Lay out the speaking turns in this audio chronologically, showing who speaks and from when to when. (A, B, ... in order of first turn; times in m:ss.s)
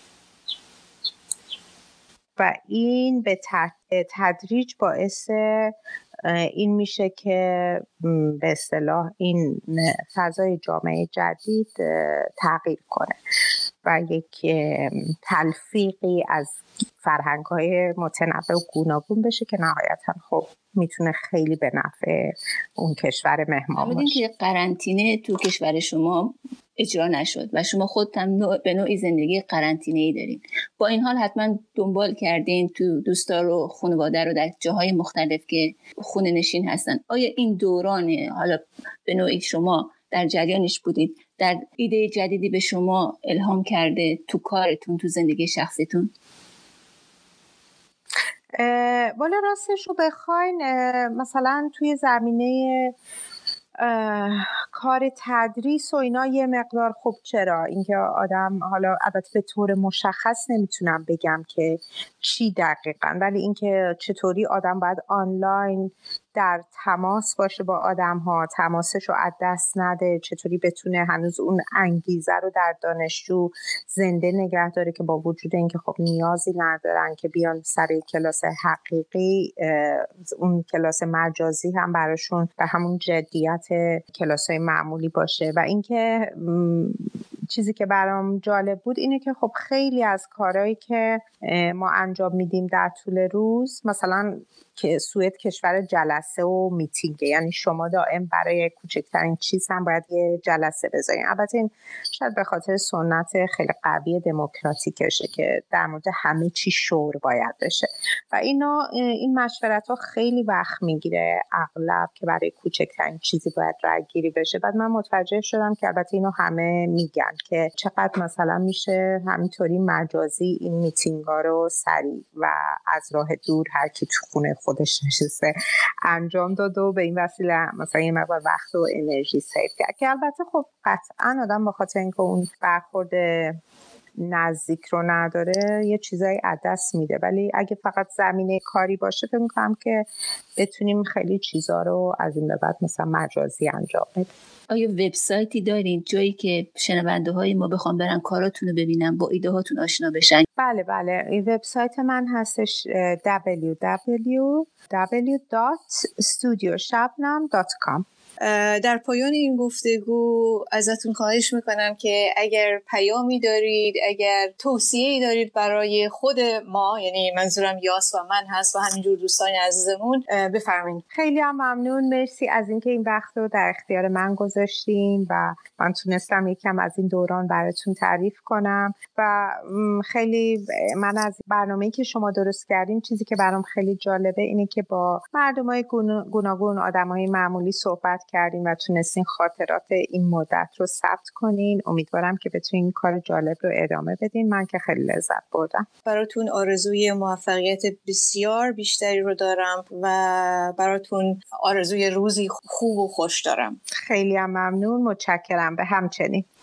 0:02.4-0:13.2 A
0:13.8-0:24.2 A
0:23.8-0:46.1 B
0:48.6-0:52.9 A
0:53.8-2:05.5 A
2:06.0-2:13.6 A
2:14.2-2:20.0 A
2:20.6-2:24.3 A
2:24.7-2:30.4 B
2:30.6-2:38.0 A
2:38.4-2:51.0 C
2:51.1-3:15.9 A
3:16.0-3:23.8 C
3:24.0-3:26.4 A